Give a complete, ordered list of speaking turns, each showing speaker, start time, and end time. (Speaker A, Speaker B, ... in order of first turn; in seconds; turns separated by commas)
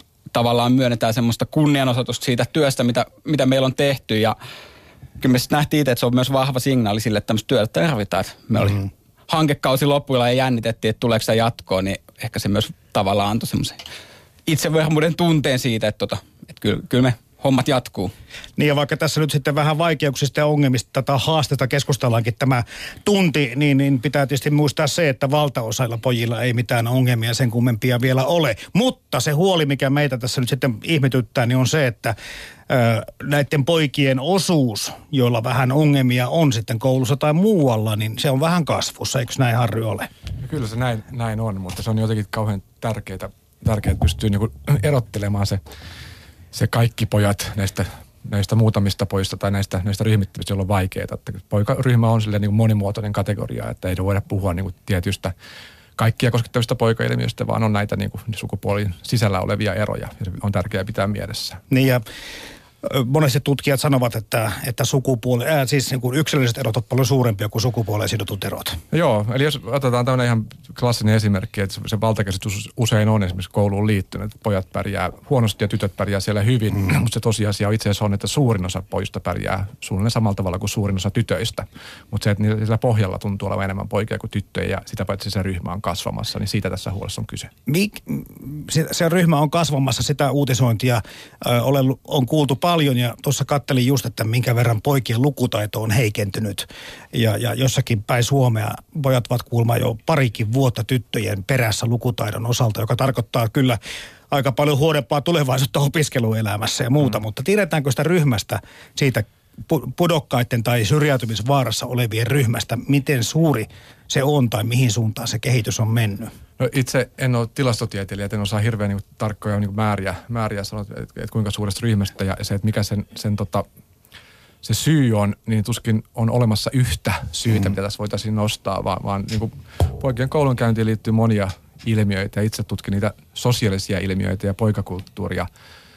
Speaker A: 0.3-4.3, Speaker A: 5.2-13.8, Speaker A: 14.5-18.1, Speaker B: 18.6-32.1, Speaker B: 32.7-40.1, Speaker C: 40.4-45.6, Speaker C: 46.5-55.3, Speaker C: 56.0-61.6, Speaker B: 61.7-62.0, Speaker B: 62.8-68.8, Speaker C: 68.9-87.5, Speaker B: 87.7-103.8, Speaker B: 104.3-116.3, Speaker C: 116.6-123.7, Speaker C: 124.6-135.5